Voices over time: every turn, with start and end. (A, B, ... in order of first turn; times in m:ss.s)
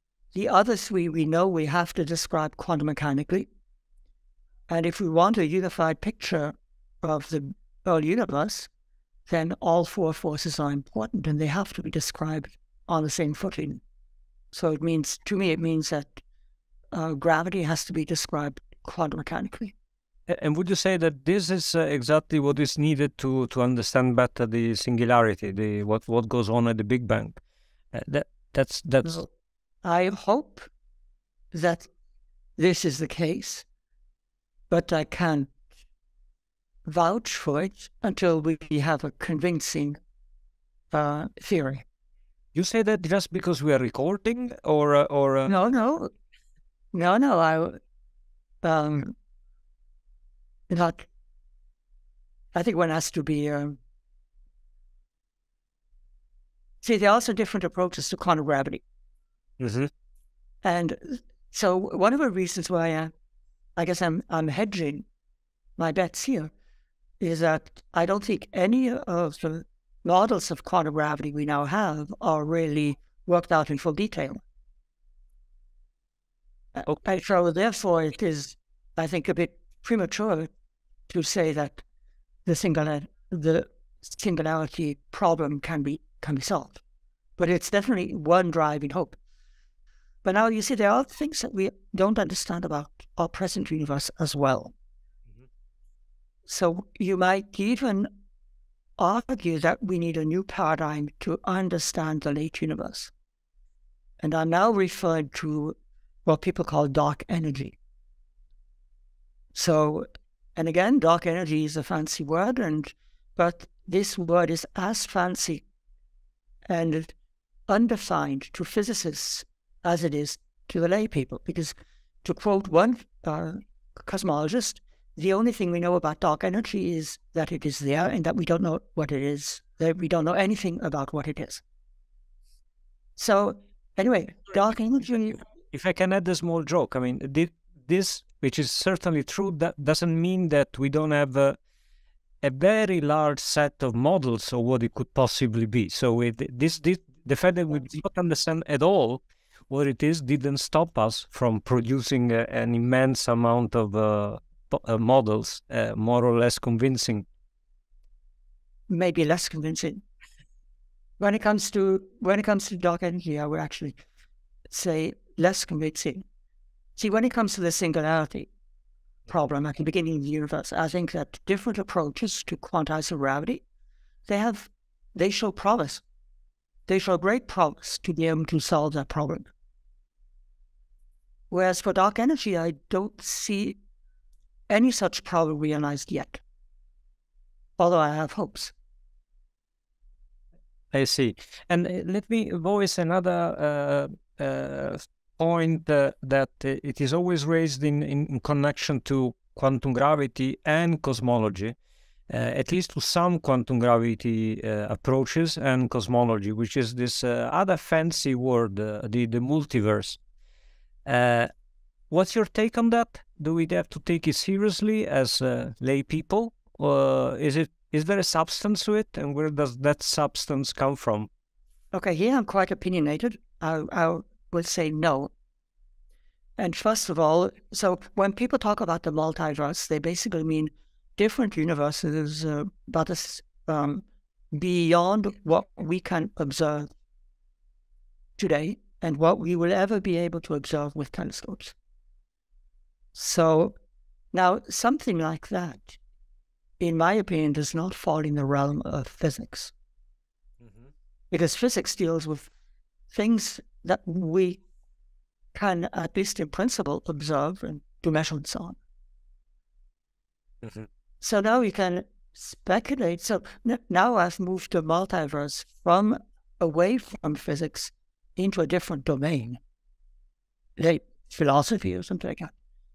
0:00.3-0:03.5 A
0:04.7-0:08.7 A
0:09.3-0:13.8 A
0:14.5-0:16.2 A
0:16.9-0:19.7 A
0:20.3-0:27.4 B
0:27.9-0:29.2 B
0:29.0-0:29.3 A
0:29.8-0:30.7 A
0:31.5-0:31.9 A
0:32.6-0:33.6 A
0:34.7-0:35.5 A
0:36.8-0:40.0 A
0:40.9-0:41.8 A
0:42.5-0:45.5 B
0:45.5-0:46.1 A
0:46.9-0:47.8 A
0:48.6-0:49.1 A
0:50.7-0:51.1 A
0:52.5-0:53.8 A
0:56.8-0:58.8 A
0:59.6-0:59.9 B
1:00.6-1:03.1 A
1:03.8-1:05.1 A
1:05.8-1:06.5 A
1:07.2-1:14.4 A
1:16.7-1:20.5 A
1:21.1-1:21.8 A
1:22.4-1:26.8 A
1:27.4-1:29.2 A
1:30.2-1:34.7 A
1:36.4-1:38.1 A
1:39.0-1:43.1 A
1:44.2-1:45.7 A
1:46.2-1:47.8 A
1:49.5-1:55.6 A
1:56.7-1:57.1 A
1:57.7-2:11.6 A
2:13.2-2:15.4 A
2:15.7-2:21.6 B
2:22.4-2:37.2 B
2:38.9-2:40.0 A
2:41.2-2:44.0 A
2:44.7-2:46.2 A
2:47.0-2:48.5 A
2:49.3-2:53.6 A
2:54.3-2:56.0 A
2:56.9-2:59.5 A
3:01.5-3:03.8 A
3:04.7-3:06.4 A
3:07.8-3:08.7 A
3:10.9-3:21.8 B
3:22.3-3:30.2 B
3:31.0-3:31.5 B
3:32.1-3:41.3 B
3:41.9-3:45.3 A
3:46.6-3:56.9 A
3:58.4-4:01.7 A
4:03.1-4:03.8 A
4:04.3-4:06.0 A
4:06.8-4:09.7 A
4:11.3-4:12.5 A
4:13.1-4:14.6 A
4:15.5-4:18.8 A
4:20.6-4:20.9 B
4:21.2-4:29.6 A
4:30.8-4:32.5 A